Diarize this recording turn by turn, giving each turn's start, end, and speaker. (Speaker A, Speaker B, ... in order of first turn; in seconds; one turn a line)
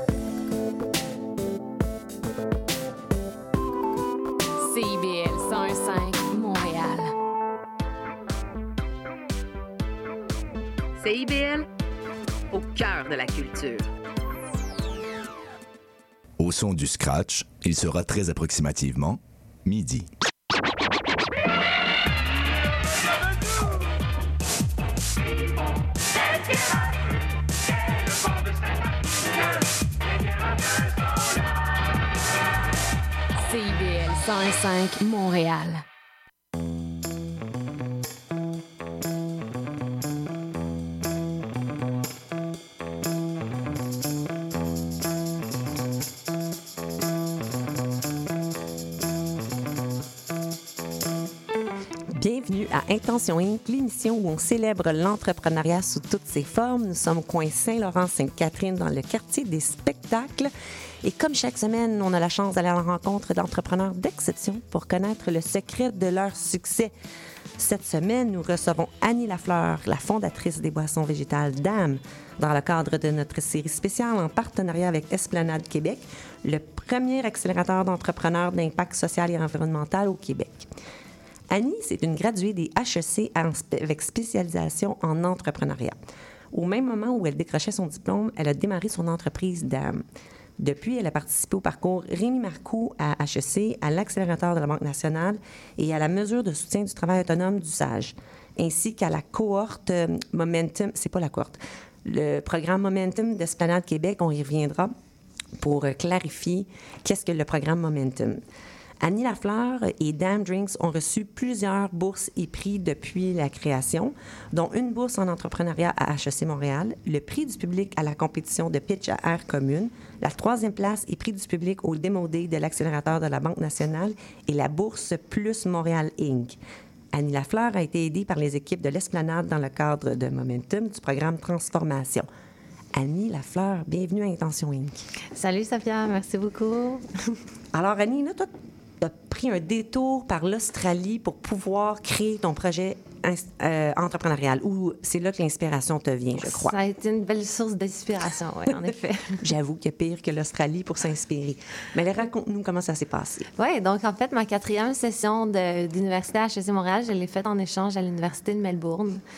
Speaker A: 4.6-7.1
Speaker A: 11.0-11.7
Speaker A: 12.5-13.9
Speaker B: 16.4-20.1
Speaker A: 33.4-35.8
Speaker C: 52.1-60.5
Speaker C: 61.0-66.9
Speaker C: 67.6-80.7
Speaker C: 81.5-86.0
Speaker C: 86.5-90.0
Speaker C: 90.6-104.9
Speaker C: 105.6-108.4
Speaker C: 109.0-126.6
Speaker C: 127.1-132.3
Speaker C: 132.9-135.1
Speaker D: 135.3-137.4
Speaker C: 137.7-146.7
Speaker D: 146.4-149.4
Speaker C: 149.4-153.5
Speaker D: 153.6-159.2